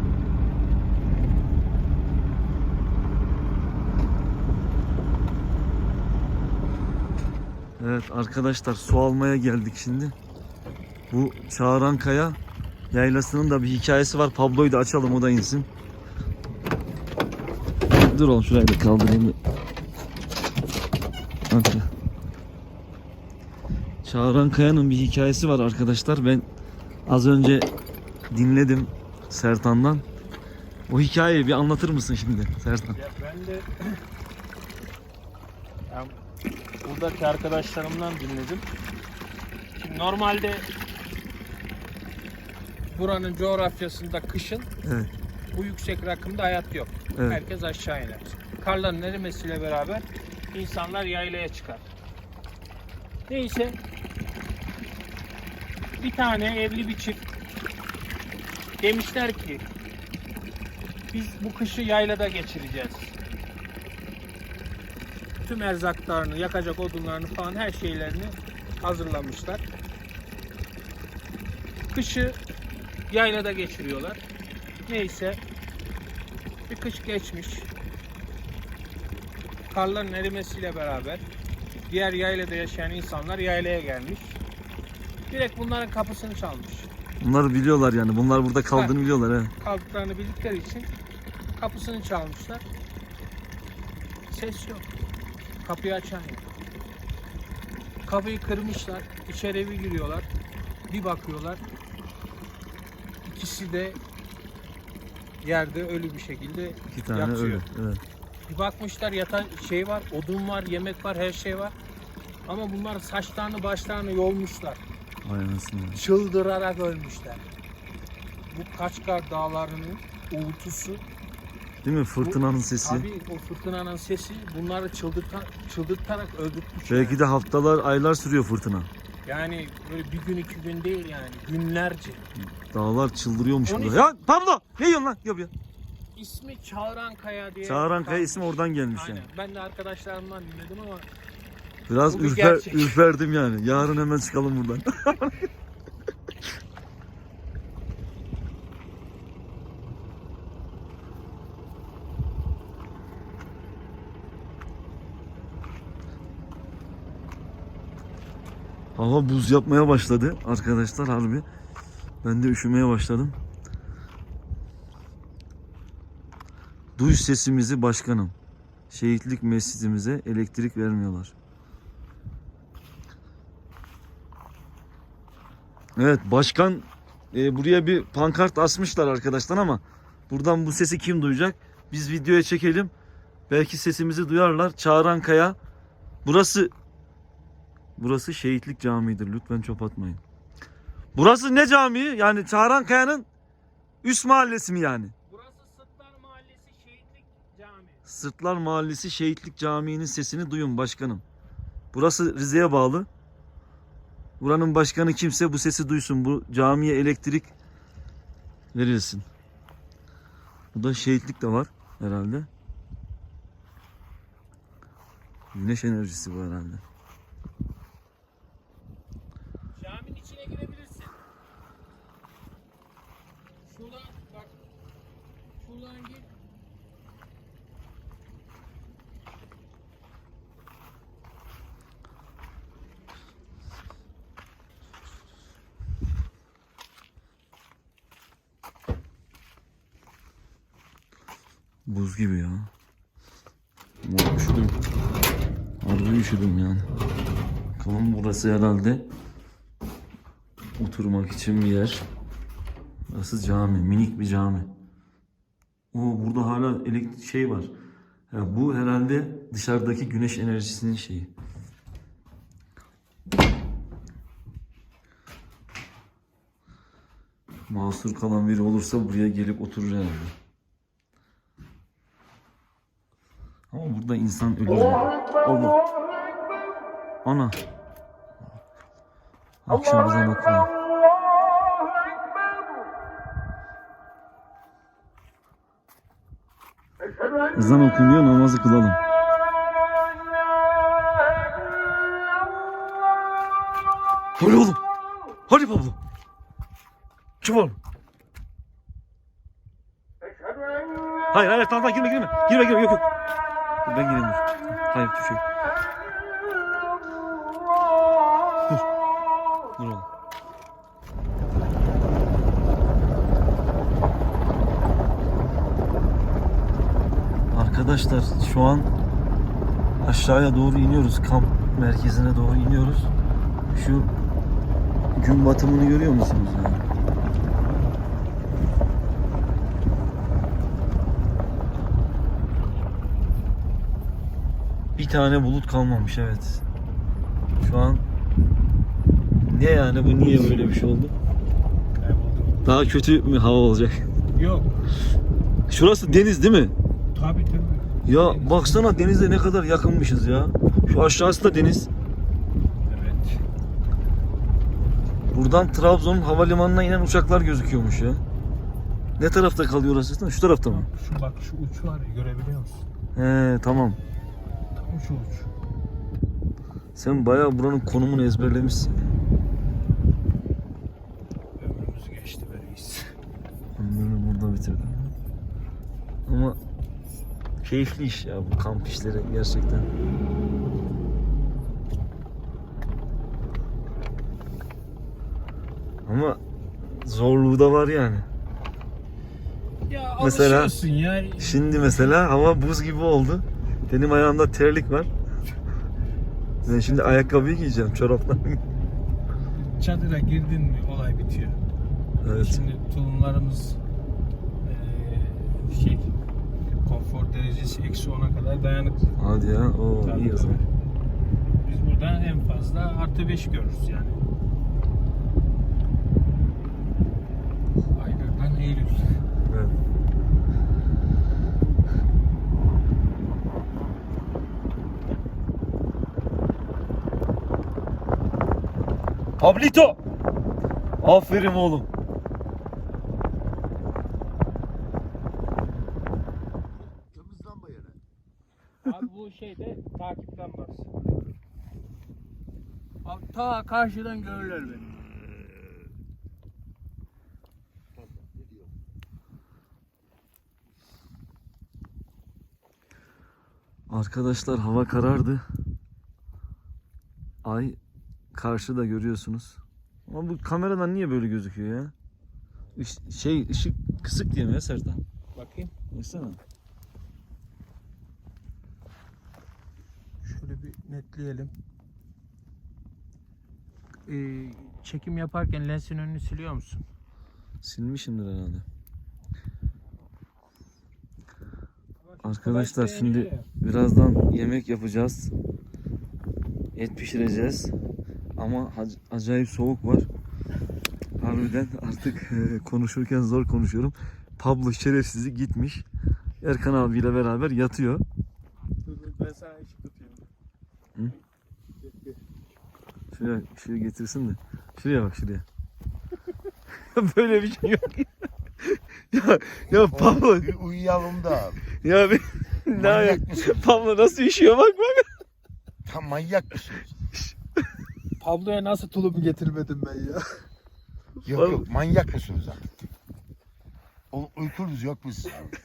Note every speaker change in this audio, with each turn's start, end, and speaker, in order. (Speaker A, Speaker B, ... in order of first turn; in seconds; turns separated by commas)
Speaker A: 7.8-10.1, Speaker A: 11.1-12.4, Speaker A: 12.9-15.7, Speaker A: 17.9-19.4, Speaker A: 21.5-21.9, Speaker A: 24.0-26.5, Speaker A: 27.1-27.7, Speaker A: 28.3-30.1, Speaker A: 30.9-33.0, Speaker B: 32.9-34.0, Speaker B: 35.9-36.2, Speaker B: 36.8-38.7, Speaker B: 39.8-40.7, Speaker B: 42.9-44.7, Speaker A: 44.8-45.1, Speaker B: 45.5-51.9, Speaker A: 47.1-47.4, Speaker B: 53.3-53.8, Speaker B: 56.0-57.2, Speaker B: 58.8-59.6, Speaker B: 61.1-63.2, Speaker B: 65.4-69.6, Speaker B: 71.9-72.4, Speaker B: 73.1-74.2, Speaker B: 74.8-75.4, Speaker B: 76.7-77.7, Speaker B: 79.7-81.2, Speaker B: 81.9-84.4, Speaker B: 85.3-86.9, Speaker A: 87.2-89.5, Speaker B: 88.7-89.0, Speaker B: 89.6-90.9, Speaker B: 91.5-92.6, Speaker B: 94.3-94.9, Speaker B: 95.6-96.4, Speaker B: 98.1-100.3, Speaker B: 100.9-101.6, Speaker B: 103.2-104.0, Speaker B: 105.4-107.6, Speaker A: 106.9-108.0, Speaker B: 108.5-111.7, Speaker B: 112.5-114.8, Speaker A: 115.2-116.0, Speaker B: 115.9-117.5, Speaker B: 118.5-121.0, Speaker A: 121.8-123.1, Speaker B: 122.2-127.2, Speaker A: 126.9-128.9, Speaker B: 129.2-132.3, Speaker A: 132.4-135.5, Speaker B: 133.7-134.1, Speaker B: 136.1-141.1, Speaker A: 137.6-139.2, Speaker A: 141.9-145.5, Speaker B: 142.1-143.0, Speaker A: 158.9-161.4, Speaker A: 162.2-163.4, Speaker A: 167.0-168.3, Speaker A: 168.9-171.3, Speaker A: 176.0-182.9, Speaker A: 183.5-185.6, Speaker A: 186.2-186.7, Speaker A: 188.0-190.2, Speaker A: 191.1-193.3, Speaker A: 194.0-195.1, Speaker B: 195.2-198.1, Speaker A: 198.1-201.2, Speaker A: 201.9-203.1, Speaker A: 204.4-207.5, Speaker A: 208.7-209.2, Speaker A: 210.7-212.5, Speaker A: 215.5-216.8, Speaker B: 219.8-221.2, Speaker B: 223.6-224.5, Speaker B: 225.6-226.3, Speaker A: 241.9-242.7, Speaker A: 244.0-244.8, Speaker A: 245.8-246.9, Speaker A: 247.8-249.1, Speaker A: 250.8-252.1, Speaker A: 253.1-254.7, Speaker A: 255.9-257.7, Speaker A: 258.3-261.3, Speaker A: 267.7-270.3, Speaker A: 273.7-275.8, Speaker A: 277.2-277.6, Speaker A: 279.6-280.7, Speaker A: 287.6-289.0, Speaker A: 294.4-294.8, Speaker A: 295.5-296.0, Speaker A: 297.4-297.8, Speaker A: 301.3-303.1, Speaker A: 303.9-305.4, Speaker A: 309.8-310.1, Speaker A: 317.5-318.9, Speaker A: 320.0-323.1, Speaker A: 323.7-324.1, Speaker A: 325.1-326.9, Speaker A: 335.0-336.6, Speaker A: 337.6-338.0, Speaker A: 339.4-341.1, Speaker B: 340.2-340.8, Speaker B: 342.0-342.7, Speaker A: 342.6-344.1, Speaker B: 344.3-344.8, Speaker A: 345.7-346.7, Speaker B: 347.1-349.1, Speaker A: 348.0-351.9, Speaker B: 352.9-353.4, Speaker A: 355.3-358.2, Speaker A: 359.2-360.9, Speaker B: 360.6-362.9, Speaker A: 363.1-364.0, Speaker B: 364.8-365.5, Speaker A: 367.0-369.1, Speaker B: 371.6-373.1, Speaker A: 373.8-375.0, Speaker A: 376.2-376.6, Speaker A: 377.6-379.9, Speaker A: 386.0-388.2, Speaker B: 389.9-392.2, Speaker A: 390.2-390.8, Speaker A: 391.4-395.1, Speaker A: 396.6-398.6, Speaker B: 396.6-397.4, Speaker B: 399.4-401.6, Speaker A: 402.2-402.7, Speaker B: 402.2-403.8, Speaker B: 404.6-406.1, Speaker B: 406.9-409.2, Speaker A: 409.2-410.6, Speaker B: 410.0-410.6, Speaker B: 411.6-414.2, Speaker B: 417.9-419.2, Speaker A: 419.5-419.8, Speaker A: 429.4-430.0, Speaker A: 431.0-431.9, Speaker C: 436.8-438.0, Speaker B: 438.8-440.9, Speaker B: 443.0-444.9, Speaker C: 448.0-448.7, Speaker A: 453.9-455.4, Speaker A: 457.4-457.8, Speaker A: 458.3-461.9, Speaker A: 462.8-465.0, Speaker B: 465.4-465.7, Speaker A: 465.9-466.4, Speaker B: 470.2-471.5, Speaker B: 474.1-476.8, Speaker A: 477.6-478.6, Speaker B: 482.0-483.5, Speaker A: 482.2-485.3, Speaker A: 486.8-487.7, Speaker A: 488.4-490.1, Speaker A: 491.2-495.9, Speaker A: 496.4-498.0, Speaker B: 498.9-500.2, Speaker A: 503.1-505.4, Speaker A: 506.8-508.1, Speaker A: 508.6-510.5, Speaker C: 509.9-511.6, Speaker A: 511.8-515.0, Speaker C: 512.7-513.9, Speaker C: 515.9-516.9, Speaker B: 518.2-520.4, Speaker C: 521.2-522.9, Speaker A: 521.3-521.7, Speaker C: 524.1-525.5